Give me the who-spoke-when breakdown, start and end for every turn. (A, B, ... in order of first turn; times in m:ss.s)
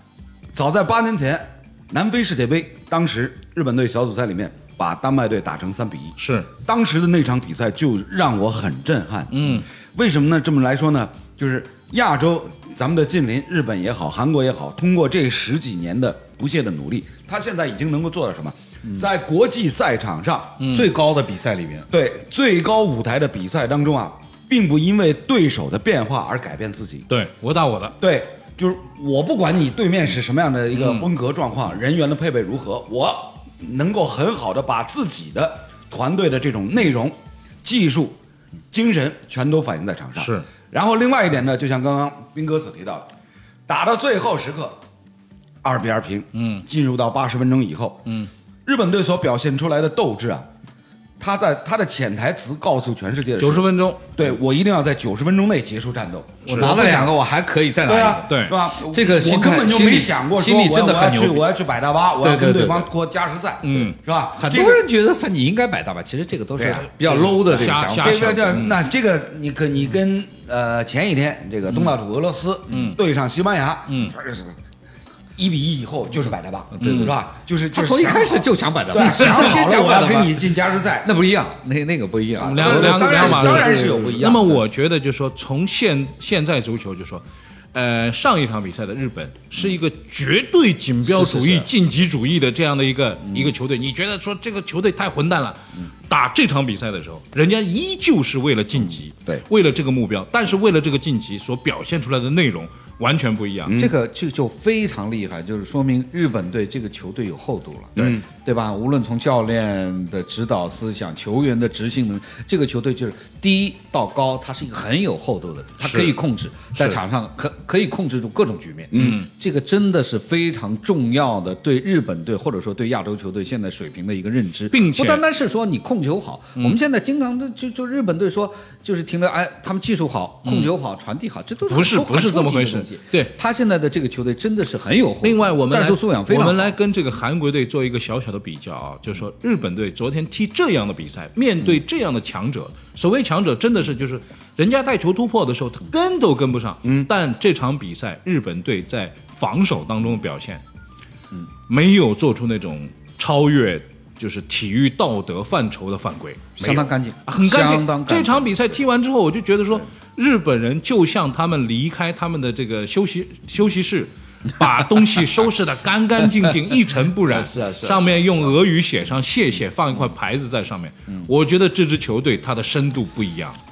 0:00.5-0:20.6 A
0:06.2-0:06.5 B
0:09.3-0:09.7 B
0:20.6-0:20.9 B
0:20.7-0:21.9 C
0:21.9-0:27.1 A
0:27.1-0:28.0 B
0:28.0-0:38.2 A
0:30.7-0:31.1 B
0:38.7-0:43.1 A
0:40.2-0:40.5 B
0:43.7-0:44.8 A
0:45.6-0:48.1 A
0:46.3-0:46.6 B
0:48.6-0:50.5 A
0:51.2-0:57.1 A
0:53.4-0:54.2 B
0:56.4-0:57.1 B
0:56.5-1:01.5 C
0:57.9-1:04.8 A
0:58.3-0:58.6 B
1:02.2-1:02.9 C
1:03.6-1:04.0 B
1:04.4-1:08.6 C
1:06.6-1:14.6 A
1:07.1-1:08.8 B
1:12.7-1:13.0 B
1:13.9-1:14.2 B
1:15.4-1:21.1 A
1:16.8-1:17.1 C
1:16.8-1:17.1 B
1:17.7-1:20.5 C
1:21.0-1:24.4 C
1:22.4-1:24.6 A
1:22.4-1:43.8 B
1:31.1-1:31.7 C
1:43.6-1:43.9 A
1:43.8-2:16.8 C
1:48.0-1:48.2 A
1:55.8-1:56.2 B
1:58.9-1:59.2 A
1:58.9-1:59.3 B
2:04.7-2:05.2 B
2:10.4-2:10.7 B
2:11.7-2:13.3 B
2:15.2-2:30.6 B
2:31.7-2:53.6 B
2:36.6-2:38.5 C
2:47.3-2:48.5 C